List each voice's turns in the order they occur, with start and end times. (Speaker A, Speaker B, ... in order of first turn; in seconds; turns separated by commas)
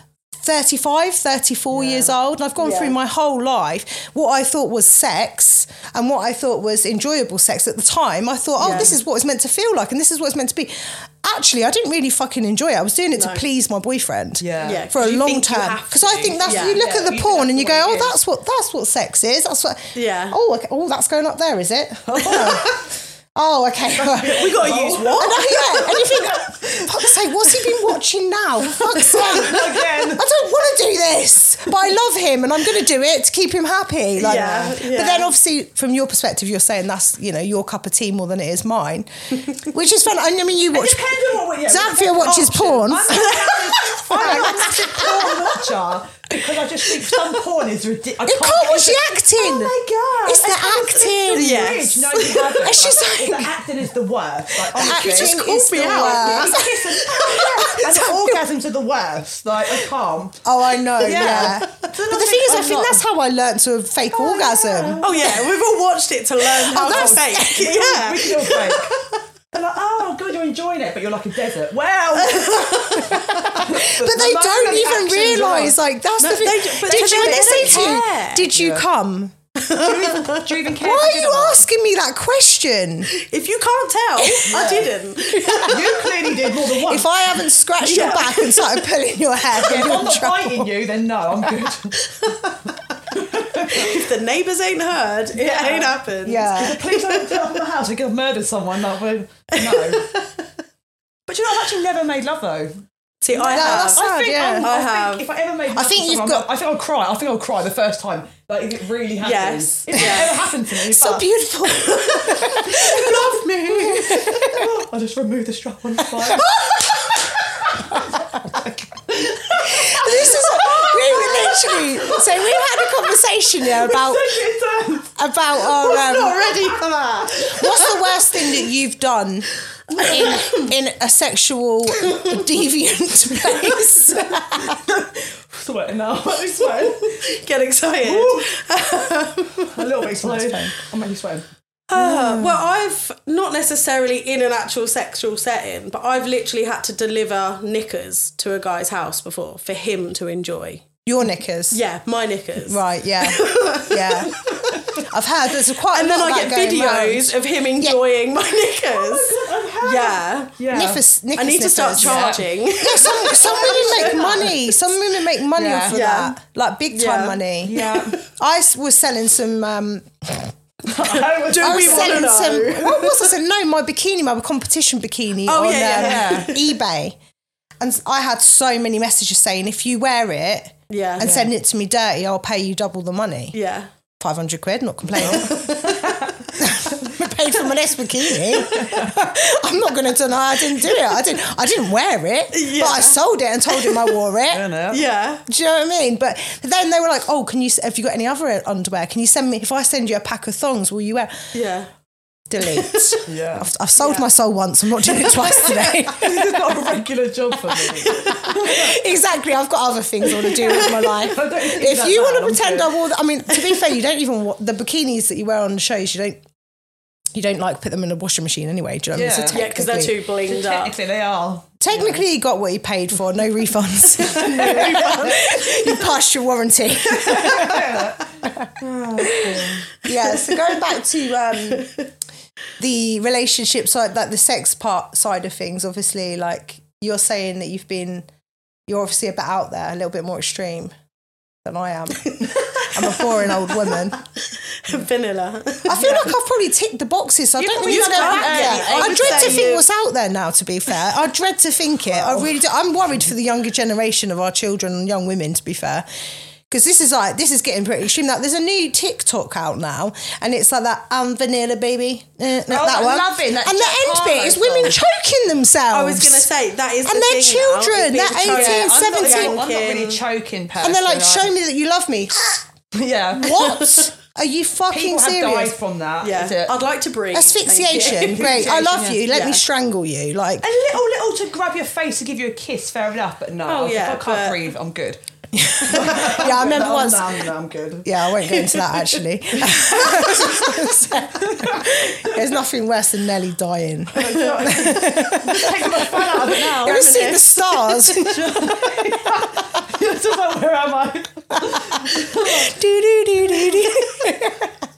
Speaker A: 0.4-43.4, Speaker B: 1.7-2.1, Speaker C: 2.6-2.9, Speaker C: 8.6-8.9, Speaker B: 8.6-8.9, Speaker C: 13.2-13.4, Speaker B: 14.4-14.9, Speaker C: 14.6-16.8, Speaker B: 16.4-18.2, Speaker C: 19.9-20.4, Speaker B: 22.1-22.9, Speaker B: 23.9-26.9, Speaker C: 24.5-25.6, Speaker B: 28.7-30.3, Speaker C: 34.2-35.3, Speaker B: 40.7-60.4, Speaker C: 43.1-44.7, Speaker A: 44.1-45.3, Speaker A: 48.2-49.7, Speaker A: 50.2-53.6, Speaker C: 50.8-52.5, Speaker A: 54.7-58.4, Speaker C: 54.8-56.6, Speaker A: 60.4-65.4, Speaker B: 61.0-63.0, Speaker B: 64.1-65.5, Speaker C: 65.0-69.2, Speaker A: 66.4-67.8, Speaker B: 66.8-68.9, Speaker B: 69.5-75.8, Speaker C: 72.4-73.5, Speaker A: 73.0-79.3, Speaker C: 76.2-78.5, Speaker B: 76.9-78.0, Speaker B: 78.5-78.8, Speaker C: 79.6-80.5, Speaker B: 79.7-81.7, Speaker A: 80.8-83.1, Speaker C: 83.1-86.1, Speaker A: 84.2-84.7, Speaker B: 84.5-84.9, Speaker A: 85.3-85.8, Speaker B: 85.6-87.1, Speaker A: 86.8-90.7, Speaker C: 87.8-88.8, Speaker B: 89.6-92.0, Speaker B: 93.1-94.0, Speaker C: 93.5-97.5, Speaker B: 95.3-100.1, Speaker A: 96.2-96.8, Speaker C: 99.6-100.4, Speaker B: 101.3-102.8, Speaker C: 103.2-105.2, Speaker B: 103.3-111.3, Speaker A: 103.5-104.7, Speaker A: 105.7-106.5, Speaker C: 109.2-110.4, Speaker A: 110.9-114.6, Speaker C: 111.7-114.5, Speaker B: 112.7-113.2, Speaker B: 114.0-116.5, Speaker A: 116.3-116.8, Speaker B: 117.4-122.6, Speaker A: 117.8-118.2, Speaker A: 119.5-124.3, Speaker B: 123.6-125.2, Speaker A: 125.2-126.5, Speaker C: 125.6-128.5, Speaker A: 127.4-134.8, Speaker C: 129.9-130.7, Speaker C: 132.1-132.3, Speaker C: 133.5-134.2, Speaker B: 134.5-137.2, Speaker C: 136.5-139.8, Speaker B: 138.0-138.5, Speaker B: 139.7-141.4, Speaker A: 140.2-140.7, Speaker C: 141.9-150.9, Speaker A: 141.9-142.7, Speaker A: 151.0-151.8, Speaker C: 151.7-154.9, Speaker A: 152.6-158.0, Speaker C: 155.8-160.6, Speaker B: 158.9-161.0, Speaker A: 160.7-170.5, Speaker C: 161.3-164.6, Speaker B: 162.0-162.4, Speaker B: 163.4-164.5, Speaker B: 165.5-166.0, Speaker C: 165.9-166.3, Speaker C: 166.9-168.2, Speaker B: 167.6-168.2, Speaker B: 170.8-172.4, Speaker C: 171.1-173.3, Speaker A: 171.6-177.2, Speaker C: 175.5-176.7, Speaker B: 175.9-176.5, Speaker A: 177.8-183.6, Speaker C: 180.9-181.4, Speaker B: 181.2-181.5, Speaker C: 183.5-183.9, Speaker A: 184.2-194.7, Speaker C: 185.2-186.3, Speaker C: 188.5-188.8, Speaker B: 188.7-189.1, Speaker C: 192.5-194.2, Speaker B: 194.5-195.0, Speaker C: 194.9-195.4, Speaker A: 195.5-201.5, Speaker C: 201.5-201.9, Speaker A: 202.5-206.6, Speaker C: 202.6-203.2, Speaker B: 203.2-203.7, Speaker C: 204.0-204.3, Speaker C: 205.1-206.0, Speaker B: 206.1-209.0, Speaker A: 207.7-216.4, Speaker C: 208.1-208.5, Speaker C: 210.4-211.1, Speaker B: 210.8-212.9, Speaker A: 217.3-220.2, Speaker B: 219.1-219.6, Speaker C: 219.5-220.9, Speaker B: 220.4-222.2, Speaker A: 221.8-228.7, Speaker C: 224.2-226.1, Speaker B: 225.1-225.4, Speaker C: 227.1-227.7, Speaker B: 227.3-229.9, Speaker A: 230.0-231.9, Speaker C: 230.2-230.9, Speaker C: 231.7-232.0, Speaker A: 232.8-238.3, Speaker A: 238.9-240.9, Speaker A: 241.6-244.2, Speaker C: 242.4-246.3, Speaker A: 245.8-256.1, Speaker B: 245.9-246.3, Speaker B: 247.6-249.7, Speaker C: 247.7-249.8, Speaker B: 252.1-252.5, Speaker A: 256.7-266.5, Speaker B: 262.7-265.0, Speaker C: 265.9-270.2, Speaker A: 267.0-269.6, Speaker B: 268.4-271.5, Speaker A: 270.8-272.6, Speaker B: 272.9-273.8, Speaker A: 273.4-275.8, Speaker C: 273.6-274.0, Speaker B: 274.9-276.8, Speaker C: 276.2-279.6, Speaker A: 277.3-280.6, Speaker B: 277.9-279.2, Speaker B: 280.6-285.2, Speaker C: 283.6-284.6, Speaker A: 285.5-287.4, Speaker B: 285.7-288.1, Speaker A: 288.0-296.0, Speaker C: 288.4-290.9, Speaker B: 291.4-292.4, Speaker B: 294.1-297.3, Speaker C: 294.3-294.6, Speaker C: 296.1-298.7, Speaker A: 296.7-299.2, Speaker B: 298.2-302.7, Speaker A: 301.5-304.7